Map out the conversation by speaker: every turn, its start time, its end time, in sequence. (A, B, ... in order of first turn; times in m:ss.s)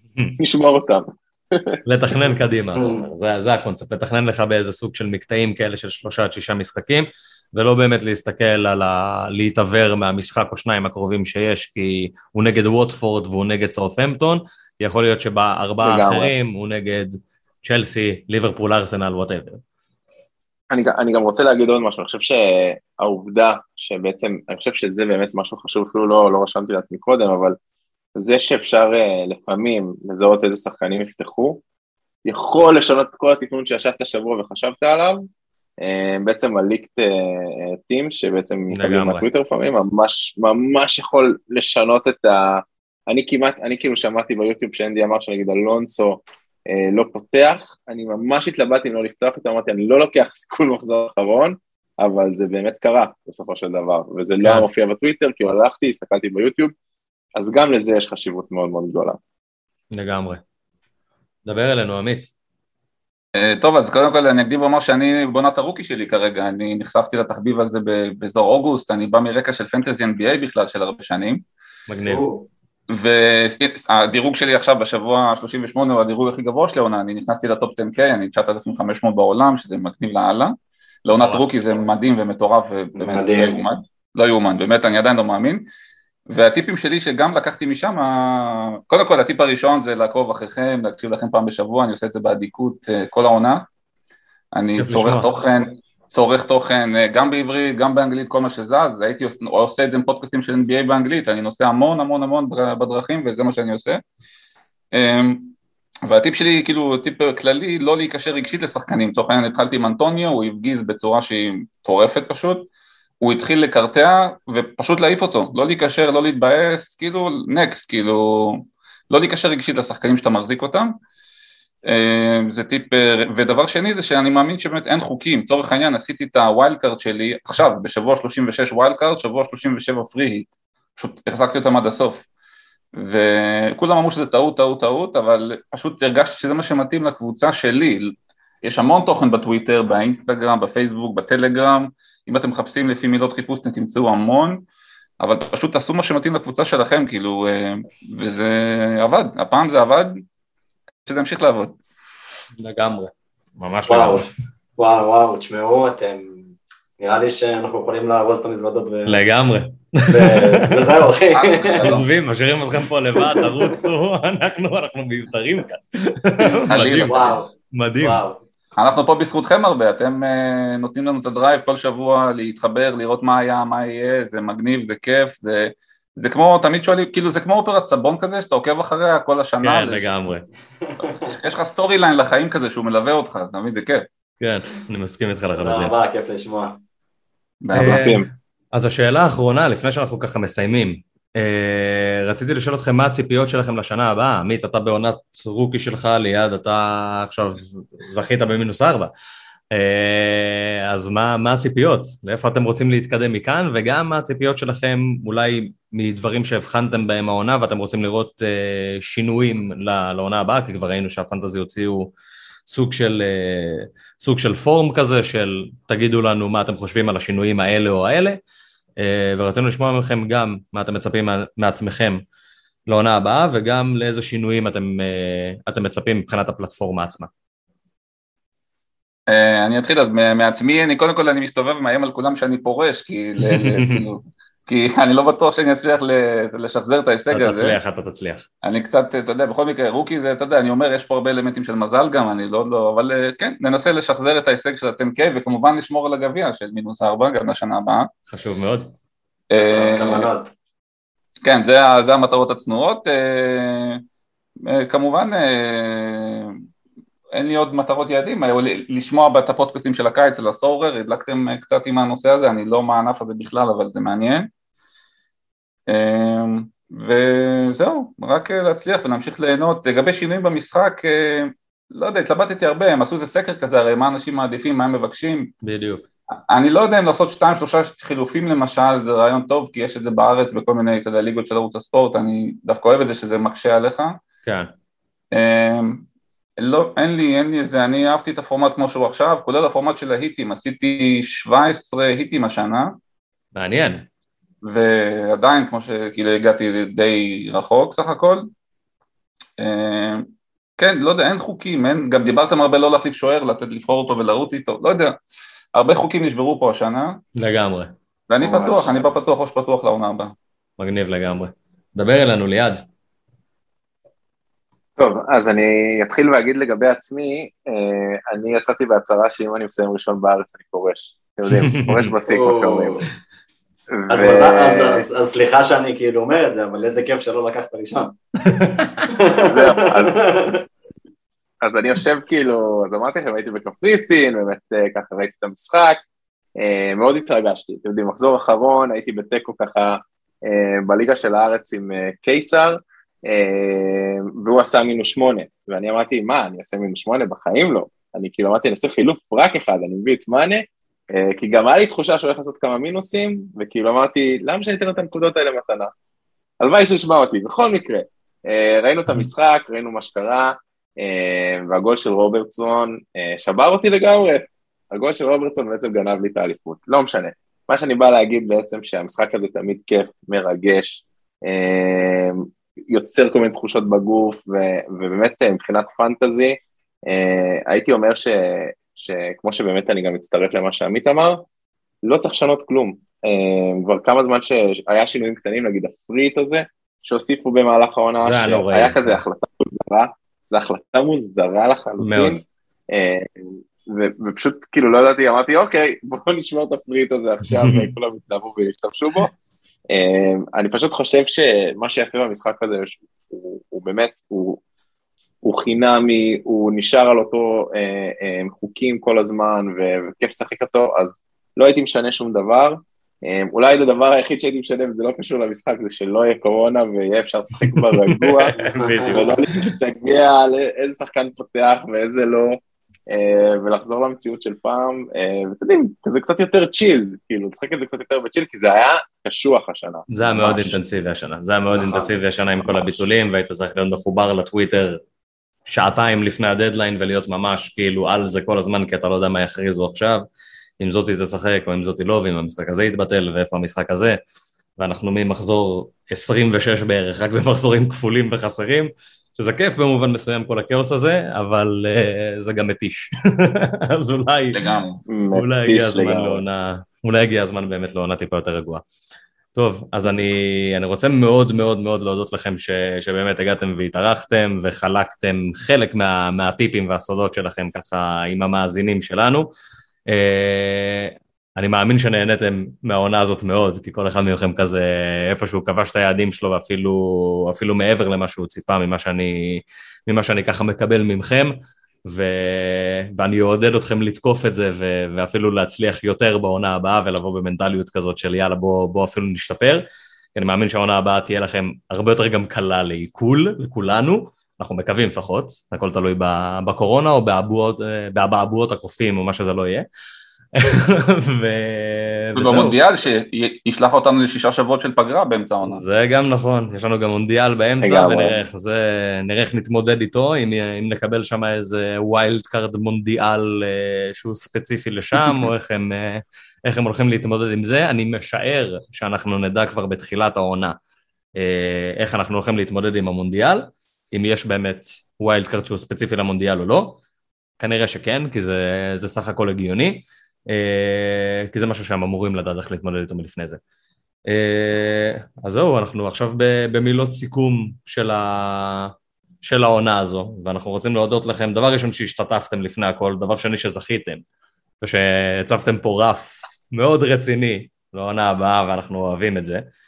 0:00.4-0:01.8 A
0:01.8-0:19.6 B
0:02.8-0:03.0 C
0:15.8-0:16.3 A
0:20.7-0:27.6 A
0:28.2-0:31.6 A
0:32.2-0:35.2 A
0:35.8-0:56.7 A
0:38.7-0:39.2 B
0:54.4-0:54.6 B
0:57.4-0:59.2 A
0:59.9-1:00.4 B
1:01.4-1:02.3 B
1:03.4-1:11.4 D
1:11.9-1:12.3 B
1:12.1-1:12.5 C
1:12.9-1:20.5 D
1:21.0-1:25.6 D
1:21.2-1:21.5 B
1:22.9-1:23.6 C
1:26.3-1:33.7 D
1:34.5-1:44.0 D
1:34.7-1:35.3 B
1:44.9-1:45.5 D
1:46.0-1:52.7 D
1:53.2-2:00.9 D
2:01.8-2:12.2 D
2:13.0-2:24.6 D
2:25.2-2:30.2 D
2:31.0-2:31.8 D
2:32.6-2:34.3 B
2:33.9-2:39.2 C
2:39.1-2:41.0 B
2:40.1-2:42.1 C
2:41.3-2:42.0 D
2:41.8-2:48.2 B
2:43.1-2:43.8 C
2:46.4-2:48.4 C
2:46.7-2:47.3 D
2:48.8-3:00.1 D
2:59.6-3:00.5 B
3:00.8-3:01.3 C
3:01.2-3:04.1 D
3:04.4-3:05.9 B
3:05.6-3:06.8 C
3:07.6-3:08.1 D
3:07.7-3:19.1 B
3:07.8-3:08.2 A
3:19.7-3:32.1 B
3:32.7-3:38.4 B
3:39.0-3:42.2 B
3:42.9-3:47.3 B
3:49.3-3:57.8 D
3:53.4-3:54.0 B
3:57.3-3:58.5 B
3:58.6-4:08.1 D
4:08.3-4:08.9 B
4:09.5-4:10.3 D
4:09.6-4:10.5 C
4:11.4-4:14.0 D
4:14.6-4:16.6 D
4:17.3-4:24.5 D
4:25.9-4:35.5 D
4:35.6-4:36.0 B
4:36.5-4:44.2 D
4:44.4-4:44.7 B
4:45.3-4:46.0 D
4:46.6-4:52.9 D
4:53.5-4:54.1 B
4:54.6-4:58.5 D
4:59.6-5:00.3 D
5:00.8-5:05.2 D
5:05.7-5:07.2 D
5:07.4-5:07.9 B
5:08.3-5:10.3 D
5:08.4-5:09.0 C
5:10.8-5:12.8 B
5:15.0-5:23.0 A
5:21.5-5:22.1 B
5:22.3-5:23.0 C
5:24.0-5:25.1 A
5:24.1-5:28.1 C
5:28.4-5:29.1 B
5:29.1-5:30.6 C
5:29.4-5:30.4 A
5:31.6-5:36.0 A
5:36.6-5:55.9 A
5:56.6-6:21.4 A
6:22.0-6:39.3 A
6:28.2-6:29.2 B
6:32.0-6:32.4 B
6:37.5-6:37.9 B
6:39.9-6:44.6 A
6:45.4-7:02.6 A
6:57.6-6:59.7 B
6:58.8-6:59.2 C
7:03.1-7:10.8 A
7:10.1-7:15.0 B
7:11.7-7:13.0 C
7:15.7-7:20.2 B
7:20.8-7:24.2 B
7:24.8-7:34.7 B
7:34.5-7:35.0 D
7:35.1-7:36.4 A
7:35.3-7:38.8 B
7:39.5-7:49.5 B
7:50.1-8:01.5 B
8:02.0-8:09.8 B
8:10.3-8:19.8 B
8:20.5-8:22.8 B
8:22.4-8:25.8 D
8:25.7-8:40.8 B
8:27.8-8:28.4 A
8:41.4-8:47.0 B
8:47.6-8:53.6 B
8:54.3-8:58.9 B
8:59.4-9:04.2 B
9:04.8-9:09.6 B